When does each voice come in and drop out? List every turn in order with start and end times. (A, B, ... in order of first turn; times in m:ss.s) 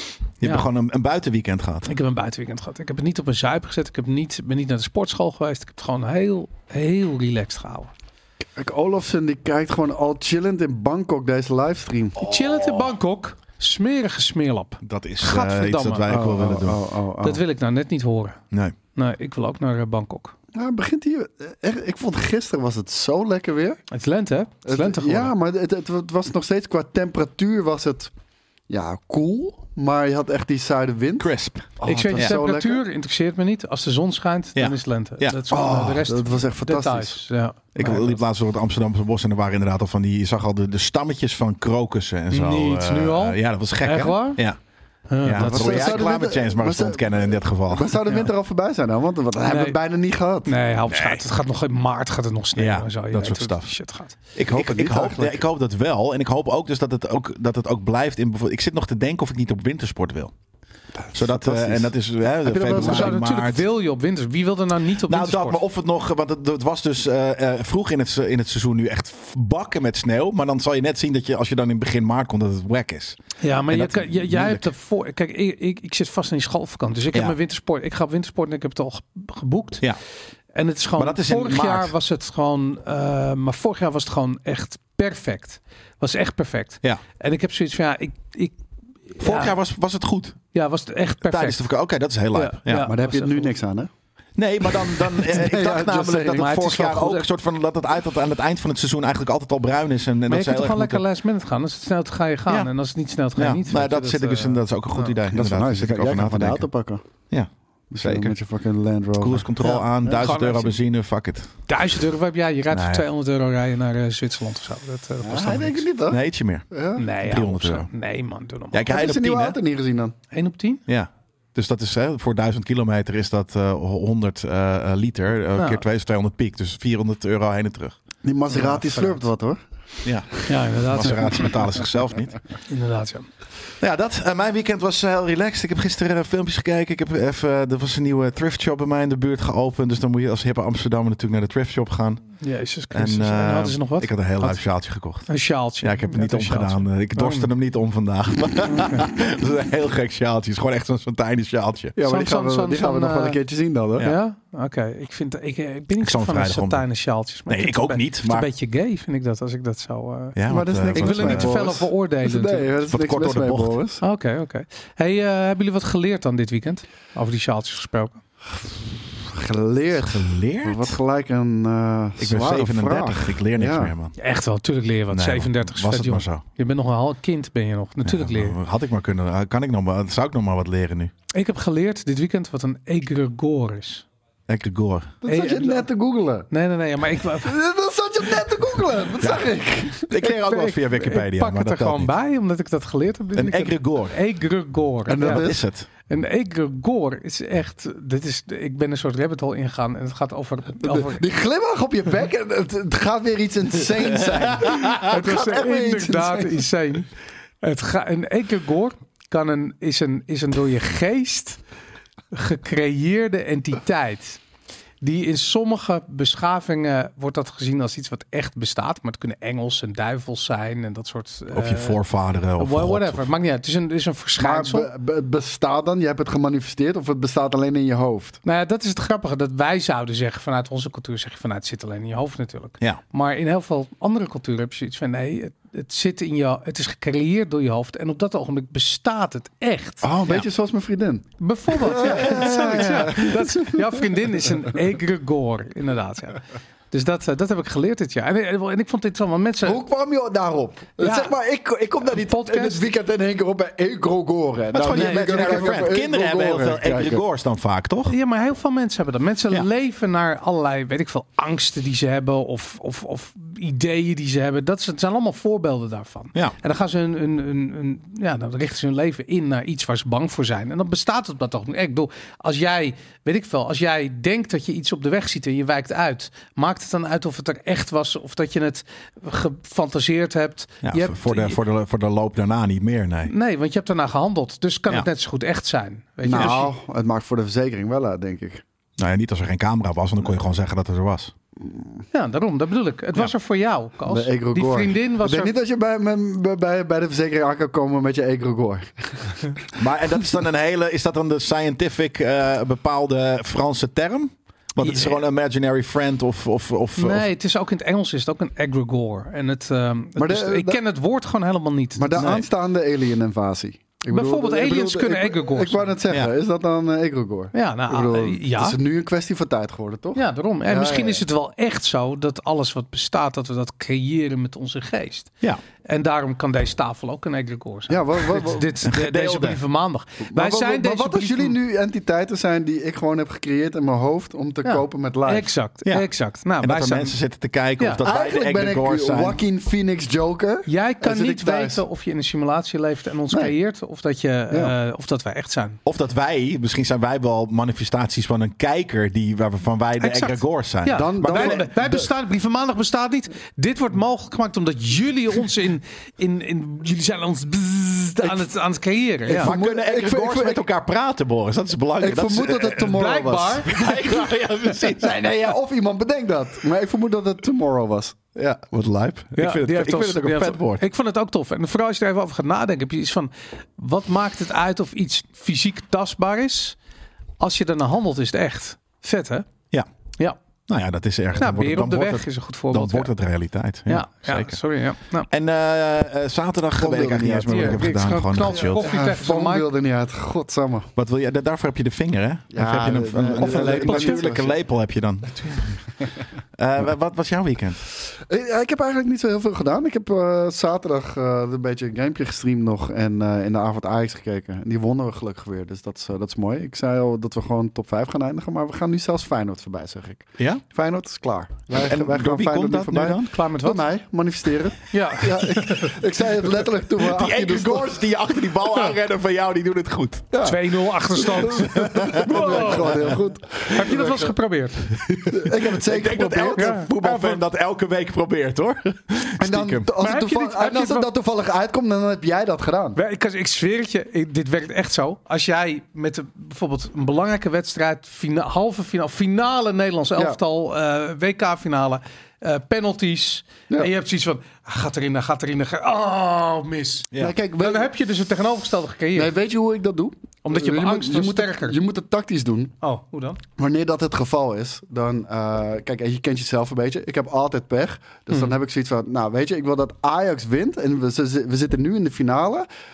0:00.4-0:01.9 A
0:00.4-0:00.7 B
0:01.8-0:07.9 B
0:08.6-0:12.2 C
0:12.2-0:16.2 B
0:14.8-0:16.8 A
0:16.1-0:17.4 C
0:17.2-0:18.4 B
0:18.9-0:20.3 B
0:20.5-0:23.8 C
0:23.9-0:25.3 B
0:24.6-0:28.1 C
0:28.7-0:32.8 C
0:31.2-0:32.3 A
0:31.8-0:38.2 B
0:34.6-0:35.4 A
0:35.5-0:37.2 C
0:37.7-0:44.6 A
0:42.3-0:44.4 B
0:45.1-0:46.1 B
0:45.2-0:48.0 A
0:45.4-0:50.6 C
0:49.4-0:49.8 B
0:50.4-0:54.1 B
0:50.9-0:51.2 A
0:52.6-0:53.7 A
0:54.3-1:00.3 A
0:54.5-0:55.4 C
1:01.0-1:01.9 C
1:01.1-1:03.6 A
1:02.4-1:03.2 C
1:02.7-1:05.6 B
1:05.0-1:13.2 A
1:13.4-1:19.8 B
1:13.7-1:14.6 A
1:20.5-1:28.6 B
1:21.0-1:21.9 A
1:29.2-1:29.5 B
1:29.2-1:30.4 A
1:30.5-1:31.7 B
1:31.2-1:32.9 A
1:32.3-1:33.5 B
1:32.8-1:33.9 C
1:34.4-1:41.0 A
1:35.2-1:36.5 C
1:36.3-1:37.3 B
1:40.3-1:45.1 B
1:43.4-1:46.6 A
1:45.3-1:47.0 C
1:47.9-1:49.5 C
1:48.0-1:48.4 A
1:49.2-1:51.6 A
1:49.6-1:50.8 B
1:51.7-1:55.8 B
1:52.7-1:53.0 A
1:55.2-1:57.1 C
1:56.1-1:56.7 A
1:57.0-1:58.9 B
1:57.2-1:57.9 A
1:58.7-1:59.6 A
1:58.8-2:00.1 C
2:00.3-2:00.8 B
2:00.9-2:07.9 A
2:05.5-2:05.8 B
2:08.2-2:09.6 C
2:08.5-2:09.2 B
2:10.0-2:12.4 A
2:10.4-2:11.5 B
2:12.7-2:13.3 B
2:13.8-2:22.3 A
2:22.4-2:24.6 B
2:22.9-2:32.0 A
2:25.3-2:27.5 B
2:28.7-2:29.1 B
2:32.0-2:34.1 C
2:32.0-2:33.4 B
2:34.0-2:40.4 B
2:36.0-2:36.8 A
2:37.5-2:38.5 A
2:40.4-2:41.7 A
2:40.4-2:44.0 C
2:40.9-2:42.7 B
2:42.8-2:43.8 A
2:44.0-2:48.2 B
2:48.9-2:53.9 C
2:50.0-2:51.0 A
2:52.2-2:54.2 A
2:54.2-2:58.6 B
2:55.1-2:56.4 A
2:58.0-3:01.1 A
3:01.3-3:04.0 B
3:04.5-3:05.2 A
3:05.2-3:06.5 C
3:05.2-3:05.8 B
3:06.5-3:07.6 B
3:07.4-3:10.1 C
3:10.1-3:12.1 A
3:10.2-3:15.5 B
3:13.4-3:14.1 A
3:15.1-3:15.6 C
3:15.2-3:15.9 A
3:16.1-3:21.3 B
3:20.8-3:26.7 C
3:24.3-3:25.0 A
3:24.9-3:27.1 B
3:27.6-3:31.6 B
3:32.3-3:34.4 B
3:35.0-3:42.0 B
3:41.5-3:43.2 A
3:42.6-3:44.9 B
3:44.4-3:48.4 C
3:48.4-4:00.1 B
4:00.0-4:04.1 C
4:01.4-4:09.8 B
4:02.1-4:02.9 A
4:09.6-4:17.2 C
4:11.0-4:11.3 B
4:12.1-4:12.9 B
4:14.7-4:18.1 A
4:14.9-4:15.7 B
4:18.0-4:41.6 B
4:40.8-4:43.3 A
4:43.3-4:46.7 B
4:46.2-4:48.6 C
4:46.3-4:46.6 A
4:49.0-4:51.3 A
4:51.6-4:52.0 C
4:52.1-4:55.5 B
4:54.1-4:59.6 C
4:59.7-5:07.2 A
5:04.8-5:05.2 B
5:07.0-5:12.4 B
5:10.2-5:10.8 C
5:12.0-5:21.2 C
5:14.1-5:16.0 B
5:17.5-5:18.8 B
5:20.1-5:25.3 B
5:25.8-5:31.6 B
5:27.9-5:28.8 C
5:28.8-5:29.6 A
5:30.2-5:35.5 C
5:34.6-5:37.1 B
5:36.6-5:39.4 A
5:37.8-5:38.0 B
5:38.0-5:41.8 C
5:40.6-5:45.8 B
5:45.8-5:51.6 A
5:50.0-5:59.5 B
5:50.9-5:52.1 C
5:59.3-6:00.6 C
5:59.3-6:03.0 A
6:02.0-6:03.8 C
6:02.8-6:04.7 B
6:03.6-6:05.2 A
6:04.9-6:08.2 C
6:08.3-6:10.8 A
6:09.4-6:16.8 B
6:17.4-6:19.5 B
6:20.7-6:24.6 A
6:21.4-6:23.1 B
6:23.9-6:25.3 B
6:25.3-6:28.9 A
6:26.7-6:27.8 C
6:27.4-6:29.7 B
6:28.4-6:30.9 C
6:31.0-6:36.0 A
6:32.5-6:34.6 C
6:33.4-6:34.3 B
6:36.6-6:37.8 A
6:38.1-6:58.0 C
6:50.4-6:50.6 A
6:51.8-6:53.3 A
6:53.2-6:53.8 B
6:54.9-6:55.9 B
6:57.0-7:00.3 A
7:00.3-7:04.3 C
7:00.4-7:03.1 B
7:01.4-7:03.1 A
7:03.7-7:04.9 B
7:05.0-7:09.9 A
7:05.2-7:06.8 C
7:06.6-7:07.4 B
7:09.4-7:13.0 C
7:10.0-7:11.1 B
7:13.0-7:29.3 B
7:27.2-7:27.9 C
7:29.1-7:32.7 C
7:30.4-7:31.8 B
7:32.8-7:33.4 B
7:33.6-7:42.7 C